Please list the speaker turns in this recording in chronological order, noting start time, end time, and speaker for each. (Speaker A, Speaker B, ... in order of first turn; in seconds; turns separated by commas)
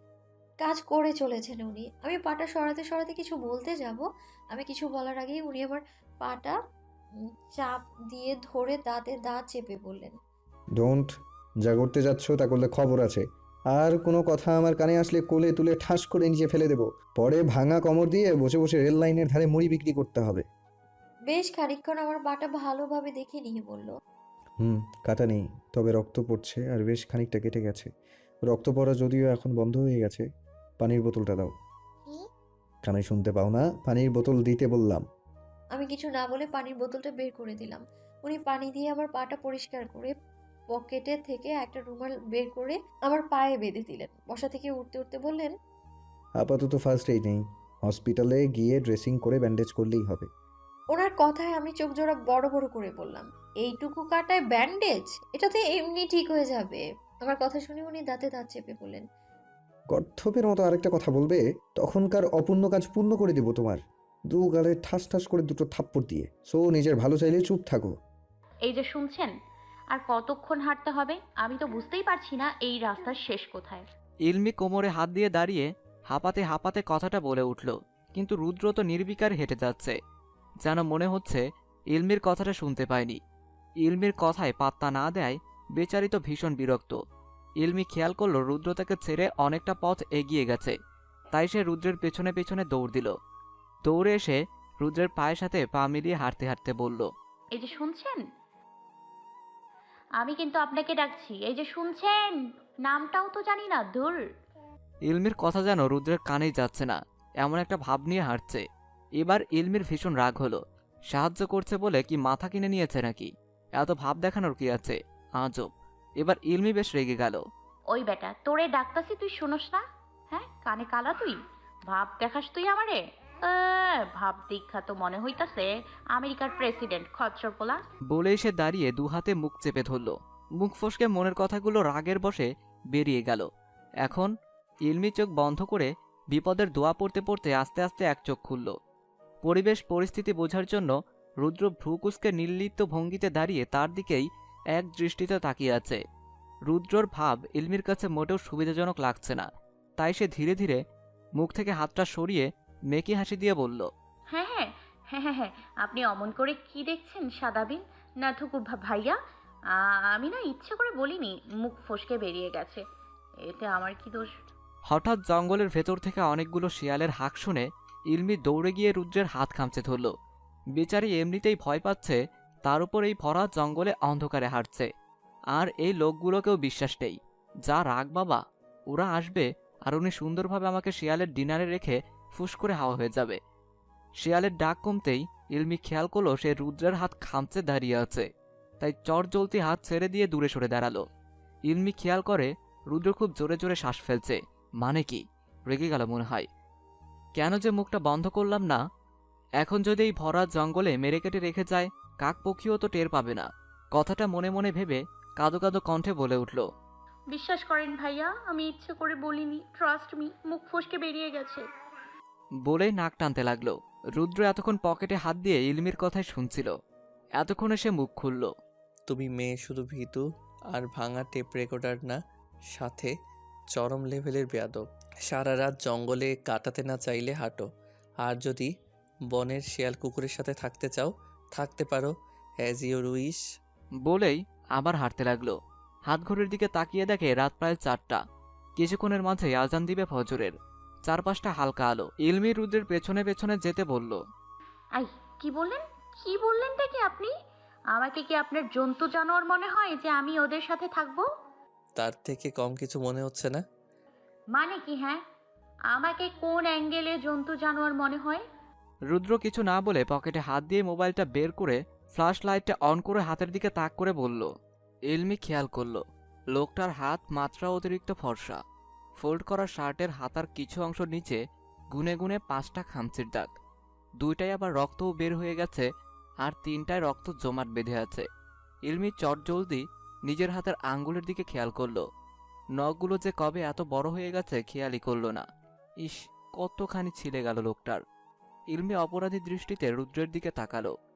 Speaker A: 0.6-6.6, Speaker A: 7.6-10.2, Speaker B: 10.8-11.1, Speaker B: 11.7-20.5, Speaker A: 21.3-23.9, Speaker B: 24.6-27.9, Speaker B: 28.5-30.2, Speaker B: 30.8-31.5, Speaker B: 32.8-35.0, Speaker A: 35.8-40.1, Speaker A: 40.8-45.5, Speaker B: 46.4-50.3, Speaker A: 50.9-59.0, Speaker B: 59.9-63.8, Speaker B: 64.3-67.9, Speaker C: 68.7-69.3, Speaker C: 69.9-73.8, Speaker D: 74.3-80.0, Speaker D: 80.6-83.2, Speaker D: 83.8-87.0, Speaker D: 87.6-90.8, Speaker D: 91.3-93.1, Speaker D: 93.8-97.1, Speaker C: 97.6-98.2, Speaker C: 100.2-102.3, Speaker C: 102.9-104.2, Speaker D: 105.1-108.6, Speaker D: 109.2-117.4, Speaker C: 117.9-121.4, Speaker C: 121.9-127.8, Speaker D: 128.1-133.5, Speaker D: 134.0-134.3, Speaker D: 134.9-138.7, Speaker D: 139.4-146.0, Speaker D: 146.7-149.5, Speaker D: 150.0-150.8, Speaker D: 151.4-153.9, Speaker C: 154.3-159.2, Speaker C: 160.2-162.8, Speaker C: 163.5-164.3, Speaker D: 164.9-170.1, Speaker D: 170.8-174.9, Speaker D: 175.5-183.4, Speaker D: 184.2-188.3, Speaker D: 188.8-191.0, Speaker D: 191.7-196.5, Speaker D: 197.4-198.8, Speaker D: 199.6-206.6, Speaker C: 207.3-211.6, Speaker D: 212.7-216.7, Speaker D: 217.4-218.5, Speaker E: 219.1-220.2, Speaker E: 220.7-222.2, Speaker E: 222.7-223.1, Speaker E: 223.7-227.7, Speaker E: 228.2-228.7, Speaker E: 229.3-232.1, Speaker E: 232.6-233.4, Speaker D: 234.1-235.6, Speaker D: 236.1-238.2, Speaker D: 238.8-240.5, Speaker D: 241.1-244.2, Speaker C: 245.0-247.3, Speaker C: 247.9-251.3, Speaker E: 252.0-253.6, Speaker C: 254.5-255.2, Speaker C: 255.9-258.4, Speaker D: 259.1-264.5, Speaker D: 265.1-268.6, Speaker D: 269.2-273.5, Speaker D: 274.2-275.9, Speaker D: 276.4-278.3, Speaker D: 278.9-282.0, Speaker D: 282.8-285.4, Speaker D: 286.0-288.0, Speaker D: 288.7-290.9